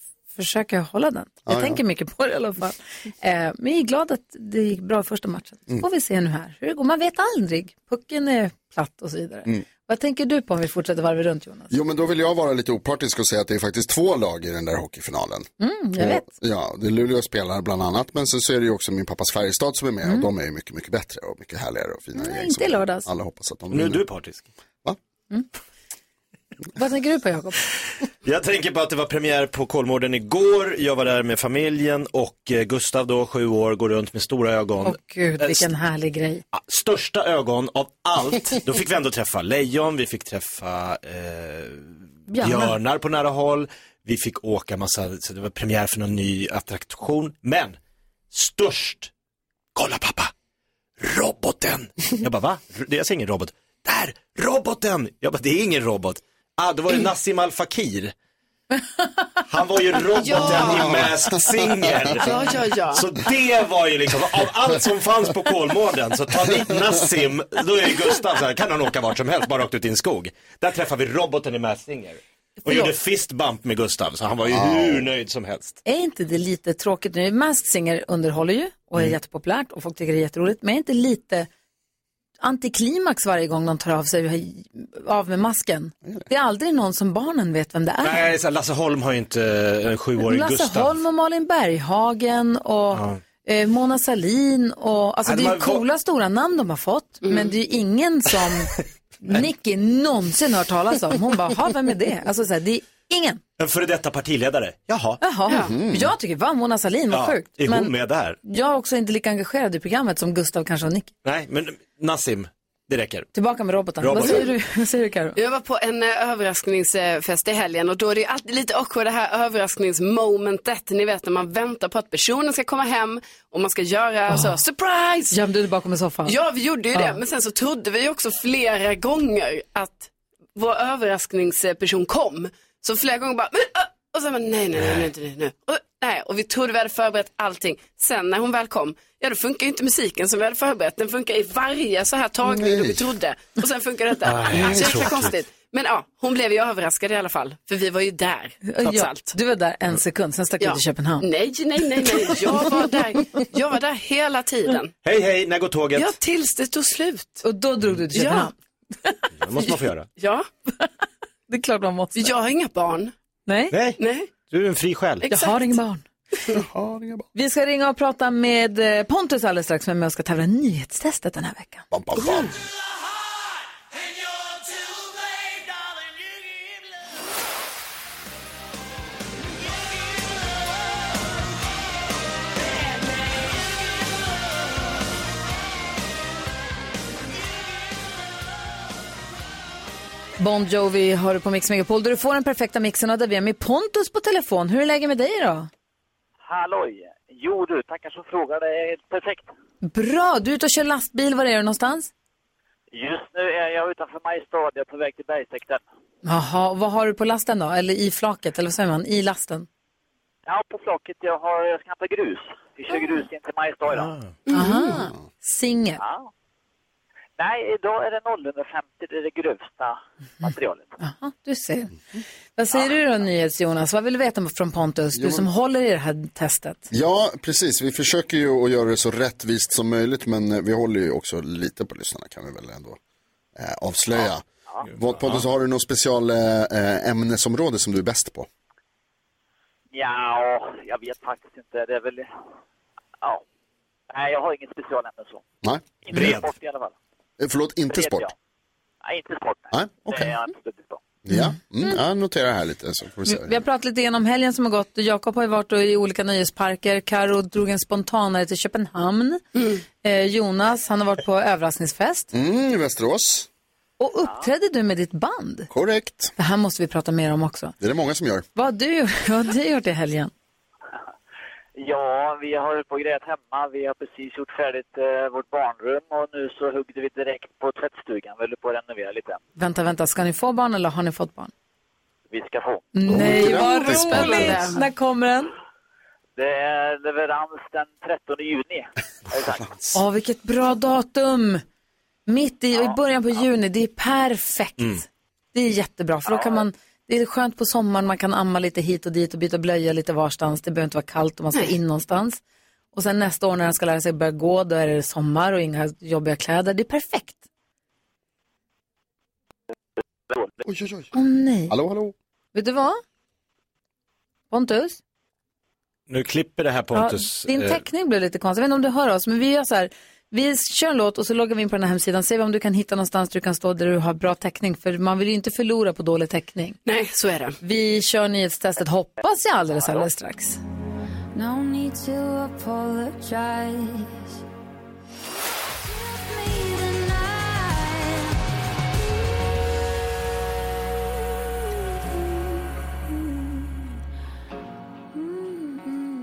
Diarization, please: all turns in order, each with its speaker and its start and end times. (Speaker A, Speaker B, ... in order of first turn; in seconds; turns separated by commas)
Speaker A: 0.3-11.7, Speaker B: 1.5-1.8, Speaker B: 11.7-24.0, Speaker A: 15.6-16.3, Speaker A: 22.1-23.1, Speaker C: 23.7-24.5, Speaker A: 26.8-27.6, Speaker C: 28.2-35.6, Speaker A: 34.8-36.4, Speaker C: 36.5-47.8, Speaker A: 42.3-42.7, Speaker C: 48.3-49.1, Speaker C: 49.7-50.3, Speaker C: 51.0-58.1, Speaker C: 59.5-62.4, Speaker D: 60.2-61.0, Speaker B: 60.6-61.1, Speaker D: 62.1-63.0, Speaker C: 62.9-75.8, Speaker A: 72.6-72.9, Speaker B: 74.5-75.0, Speaker A: 75.8-81.5, Speaker A: 82.4-88.2, Speaker C: 88.0-91.0, Speaker A: 90.2-103.4, Speaker C: 92.9-93.2, Speaker C: 95.2-95.8, Speaker D: 97.2-97.5, Speaker C: 103.6-105.2, Speaker A: 105.2-107.9, Speaker D: 105.5-105.7, Speaker B: 105.6-106.1, Speaker C: 107.1-108.4, Speaker A: 108.4-111.1, Speaker C: 111.2-113.3, Speaker A: 113.3-115.3, Speaker C: 114.0-114.4, Speaker D: 115.3-125.4, Speaker A: 124.3-124.6, Speaker A: 125.3-126.4, Speaker D: 126.2-149.3, Speaker A: 126.9-127.2, Speaker B: 142.5-143.0, Speaker C: 144.2-145.3, Speaker A: 148.6-151.3, Speaker D: 150.6-154.9, Speaker C: 155.0-156.1, Speaker D: 155.9-157.4, Speaker A: 157.4-158.5, Speaker D: 158.1-158.5, Speaker A: 159.0-159.7, Speaker C: 159.4-160.1, Speaker D: 160.2-160.5, Speaker A: 161.5-162.3, Speaker D: 162.2-163.1, Speaker A: 163.5-163.7, Speaker C: 163.7-164.0, Speaker D: 164.0-164.3, Speaker C: 164.5-165.3, Speaker D: 165.3-165.7, Speaker A: 165.3-166.0, Speaker B: 166.5-167.3, Speaker A: 167.3-171.8, Speaker B: 171.9-172.5, Speaker A: 190.4-195.7, Speaker E: 196.4-199.5, Speaker A: 199.8-202.1, Speaker E: 202.9-205.8, Speaker A: 206.2-209.7, Speaker E: 210.4-214.1, Speaker D: 214.5-215.0, Speaker A: 214.5-216.0, Speaker E: 216.0-216.3, Speaker E: 217.4-220.9, Speaker A: 221.0-221.9, Speaker A: 222.6-226.8, Speaker B: 225.1-225.4, Speaker B: 226.9-233.0, Speaker B: 233.6-238.5, Speaker E: 239.9-242.3, Speaker E: 244.1-245.4, Speaker E: 246.0-246.9, Speaker C: 246.1-246.5, Speaker B: 247.4-248.3, Speaker E: 247.9-248.3, Speaker E: 249.0-251.0, Speaker B: 249.7-250.4, Speaker B: 251.2-253.6, Speaker A: 251.3-251.9, Speaker A: 253.2-259.4, Speaker A: 260.0-262.3, Speaker B: 262.3-263.5, Speaker A: 264.0-265.7, Speaker B: 265.7-266.3, Speaker A: 266.4-267.7, Speaker B: 267.8-268.4, Speaker A: 268.5-270.3, Speaker E: 271.8-279.4, Speaker A: 279.6-281.5, Speaker E: 282.3-282.9, Speaker A: 282.9-285.5, Speaker B: 283.1-284.7, Speaker D: 283.3-284.9, Speaker E: 286.4-289.6, Speaker B: 289.4-290.0, Speaker A: 289.9-291.6, Speaker A: 292.3-302.4, Speaker E: 296.3-296.6, Speaker A: 302.9-307.4, Speaker E: 310.3-310.6, Speaker B: 310.6-311.1, Speaker A: 311.1-311.7, Speaker B: 311.7-312.1, Speaker A: 312.5-313.0, Speaker A: 314.5-315.0, Speaker C: 316.1-317.8, Speaker A: 316.9-326.8, Speaker D: 326.9-327.6, Speaker A: 327.6-330.6, Speaker E: 329.8-330.1, Speaker F: 331.4-333.8, Speaker F: 336.1-337.9